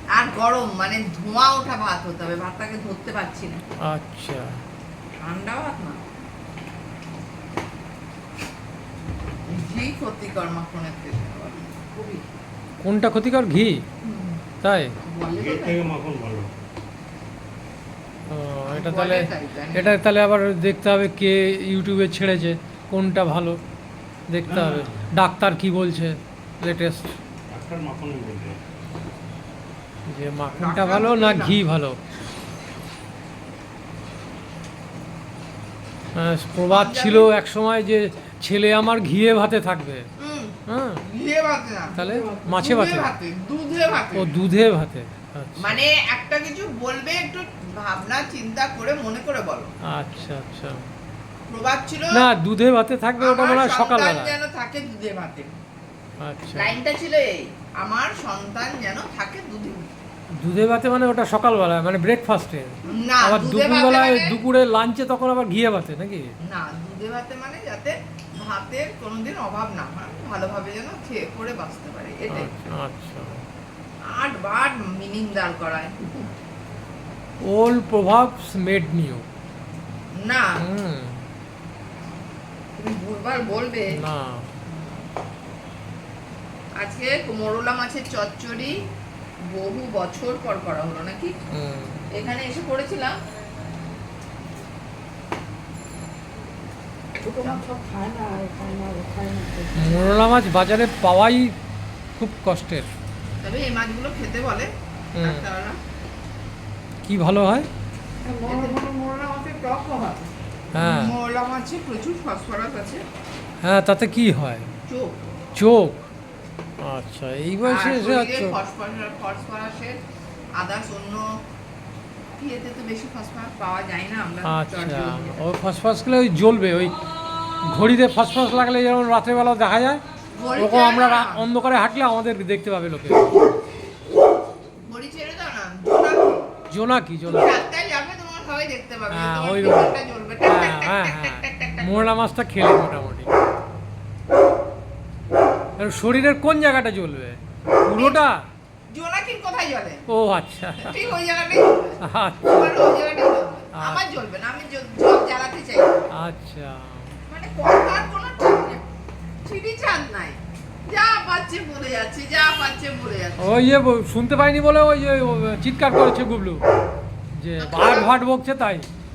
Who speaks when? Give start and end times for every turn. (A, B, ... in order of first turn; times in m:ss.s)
0:00.1-0:03.6 A
0:03.8-0:04.6 B
0:05.2-0:06.0 A
0:09.5-0:12.1 A
0:12.8-0:13.8 B
0:14.0-0:14.4 A
0:14.6-0:14.9 B
0:15.0-0:15.8 A
0:15.3-0:16.5 C
0:18.3-0:23.6 B
0:18.6-0:19.9 A
0:24.3-0:27.1 B
0:24.5-0:25.0 C
0:27.5-0:28.6 C
0:30.1-0:32.0 B
0:30.6-0:31.6 A
0:36.2-0:40.0 B
0:36.7-0:37.3 A
0:40.2-0:40.6 A
0:40.7-0:41.0 B
0:41.1-0:42.0 A
0:41.9-0:42.6 D
0:42.0-0:43.1 B
0:42.6-0:44.3 A
0:44.1-0:45.8 B
0:45.6-0:49.7 A
0:49.9-0:50.8 B
0:51.5-0:52.2 A
0:52.1-0:54.3 B
0:53.2-0:55.5 A
0:56.2-0:56.7 B
0:56.5-0:59.9 A
1:00.4-1:06.3 B
1:02.8-1:04.3 A
1:06.5-1:12.5 A
1:12.3-1:13.4 B
1:14.1-1:16.0 A
1:17.4-1:19.2 B
1:20.2-1:20.5 A
1:20.6-1:21.2 B
1:22.8-1:24.0 A
1:23.9-1:24.5 B
1:26.8-1:28.8 A
1:29.5-1:31.3 A
1:31.5-1:32.1 B
1:32.1-1:33.1 A
1:37.2-1:40.2 D
1:39.8-1:41.5 B
1:42.2-1:42.9 B
1:43.4-1:45.8 A
1:45.2-1:45.4 B
1:47.0-1:47.7 B
1:48.2-1:50.3 D
1:48.4-1:48.8 A
1:50.7-1:51.1 B
1:50.8-1:53.0 A
1:53.6-1:54.7 B
1:54.9-1:55.1 A
1:55.6-1:56.1 B
1:56.8-1:58.5 B
1:57.6-2:00.0 A
2:00.6-2:01.3 A
2:02.4-2:05.4 A
2:04.4-2:06.9 B
2:07.7-2:10.0 B
2:10.3-2:11.4 A
2:10.6-2:13.3 B
2:14.8-2:16.5 A
2:16.7-2:17.5 B
2:17.2-2:22.1 A
2:19.1-2:23.3 B
2:25.8-2:28.4 B
2:27.9-2:28.2 A
2:28.9-2:30.0 A
2:30.1-2:30.9 B
2:30.8-2:36.0 A
2:32.0-2:32.7 B
2:33.8-2:34.0 B
2:36.1-2:37.1 B
2:37.3-2:38.8 A
2:39.4-2:43.6 A
2:43.4-2:46.6 B
2:47.4-2:48.9 B
2:47.6-2:48.1 A